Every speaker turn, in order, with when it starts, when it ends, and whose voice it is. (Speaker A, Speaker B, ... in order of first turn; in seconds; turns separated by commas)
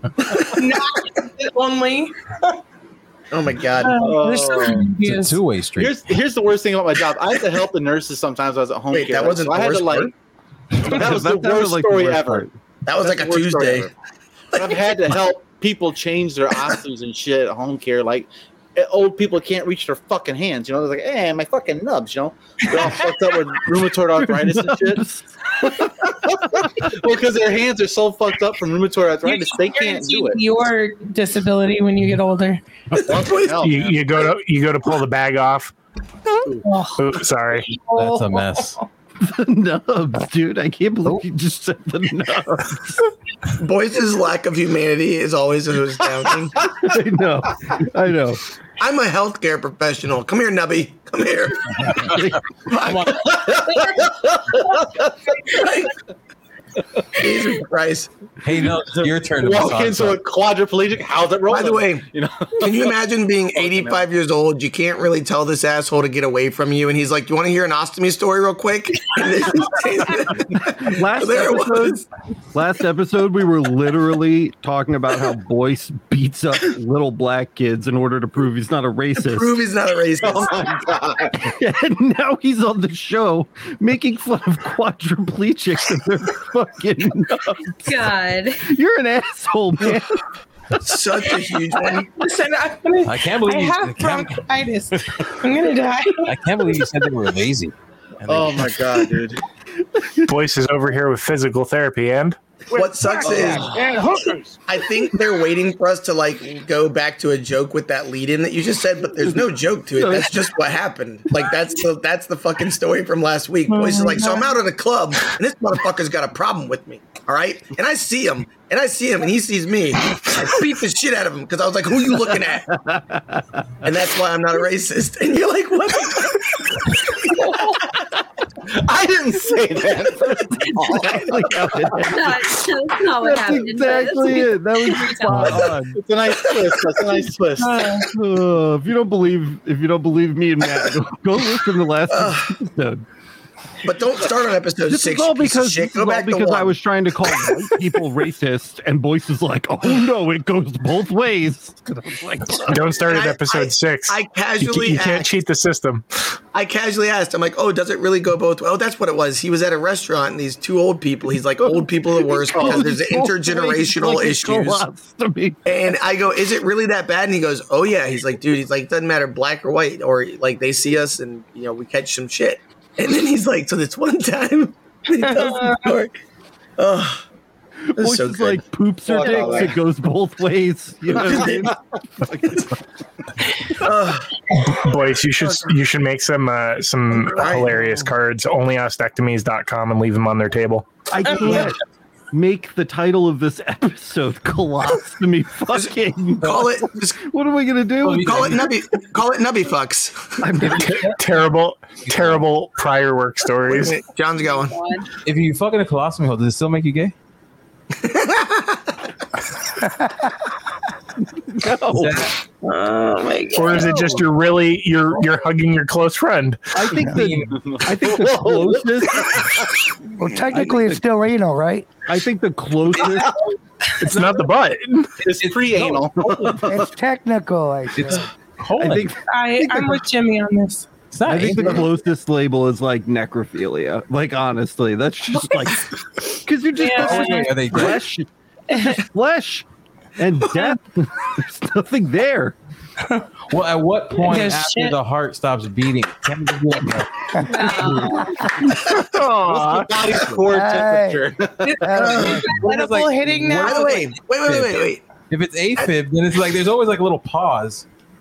Speaker A: 0.3-2.5, Speaker B: 3.3-4.1, Speaker A: 3.8-5.4, Speaker C: 4.0-4.9, Speaker D: 5.0-6.0, Speaker C: 5.8-10.1, Speaker B: 8.9-10.1, Speaker E: 10.8-12.5, Speaker C: 10.8-13.9, Speaker B: 12.9-13.9, Speaker B: 14.5-15.0, Speaker C: 14.5-25.1, Speaker E: 24.1-27.0, Speaker C: 26.1-30.4, Speaker A: 29.2-32.6, Speaker B: 33.0-33.7, Speaker C: 33.0-34.0, Speaker F: 33.6-35.7, Speaker A: 36.6-37.0, Speaker F: 37.0-37.8, Speaker A: 37.7-38.8, Speaker D: 37.9-38.8, Speaker E: 39.2-43.0, Speaker B: 43.6-46.7, Speaker E: 46.8-48.4, Speaker B: 48.8-53.5, Speaker E: 52.0-52.4, Speaker D: 52.7-53.3, Speaker C: 53.1-55.1, Speaker B: 55.5-55.9, Speaker B: 57.1-58.1, Speaker D: 58.4-60.2, Speaker C: 59.0-63.0, Speaker B: 61.5-62.1, Speaker B: 62.6-72.1, Speaker C: 63.5-64.1, Speaker E: 70.7-72.0, Speaker E: 72.5-79.6, Speaker B: 79.2-80.9, Speaker C: 80.2-81.5, Speaker E: 81.4-87.8, Speaker G: 87.8-88.7, Speaker E: 88.6-90.2, Speaker B: 90.8-92.1, Speaker A: 91.8-96.4, Speaker D: 93.0-94.4, Speaker D: 96.2-98.8, Speaker C: 98.3-99.4, Speaker E: 100.0-100.3, Speaker F: 100.2-102.4, Speaker B: 102.7-103.8, Speaker H: 102.7-104.6, Speaker C: 103.2-103.8, Speaker B: 104.7-122.7, Speaker E: 110.0-110.4, Speaker A: 113.7-114.5, Speaker E: 122.7-123.6, Speaker B: 123.8-127.5, Speaker C: 128.7-131.2, Speaker E: 130.4-136.0, Speaker B: 131.0-131.5, Speaker G: 132.0-135.8, Speaker C: 135.9-137.8, Speaker A: 137.6-138.1, Speaker E: 138.0-143.0, Speaker B: 142.1-142.6, Speaker B: 143.8-147.6, Speaker E: 144.9-152.9, Speaker F: 152.7-156.1, Speaker B: 153.0-155.3, Speaker B: 156.5-164.9, Speaker E: 162.3-165.7, Speaker C: 162.6-162.9, Speaker B: 165.7-176.2, Speaker A: 175.2-175.9, Speaker B: 176.8-177.2, Speaker E: 177.8-182.6, Speaker B: 178.0-178.6, Speaker C: 179.1-179.8, Speaker B: 179.2-179.7, Speaker B: 181.1-181.8, Speaker B: 183.8-184.3, Speaker F: 184.5-190.9, Speaker B: 187.1-188.0, Speaker E: 191.1-191.8, Speaker E: 192.3-198.7, Speaker B: 195.7-197.2, Speaker D: 198.0-198.7, Speaker B: 198.2-200.5, Speaker E: 200.4-201.1, Speaker D: 200.6-201.0, Speaker F: 200.8-204.0, Speaker D: 202.1-202.4, Speaker B: 203.7-204.8, Speaker G: 204.4-205.1, Speaker D: 205.2-207.1, Speaker B: 207.9-208.8, Speaker E: 211.5-212.3, Speaker D: 211.9-212.3, Speaker B: 212.6-214.2, Speaker F: 213.6-216.9, Speaker E: 213.7-214.2, Speaker E: 216.7-219.7, Speaker D: 217.1-217.6, Speaker C: 217.5-219.7, Speaker H: 220.2-222.0, Speaker E: 220.5-221.1, Speaker E: 222.1-223.4, Speaker F: 224.0-225.2, Speaker C: 225.2-226.9, Speaker D: 225.4-225.9, Speaker E: 225.8-226.7, Speaker H: 226.6-228.3, Speaker D: 227.9-229.1, Speaker E: 228.8-230.0, Speaker A: 229.3-230.9, Speaker D: 231.1-231.9, Speaker E: 231.2-238.3, Speaker A: 236.8-237.7, Speaker D: 237.0-238.0, Speaker A: 238.7-239.0, Speaker E: 238.9-239.7, Speaker E: 240.2-242.6, Speaker D: 243.5-248.2, Speaker A: 244.2-244.9, Speaker G: 247.4-248.4, Speaker C: 249.4-252.3, Speaker H: 250.4-251.3, Speaker A: 251.6-254.1, Speaker H: 251.8-252.5, Speaker B: 251.9-252.4, Speaker D: 252.5-253.9, Speaker B: 253.5-255.0, Speaker D: 254.4-257.9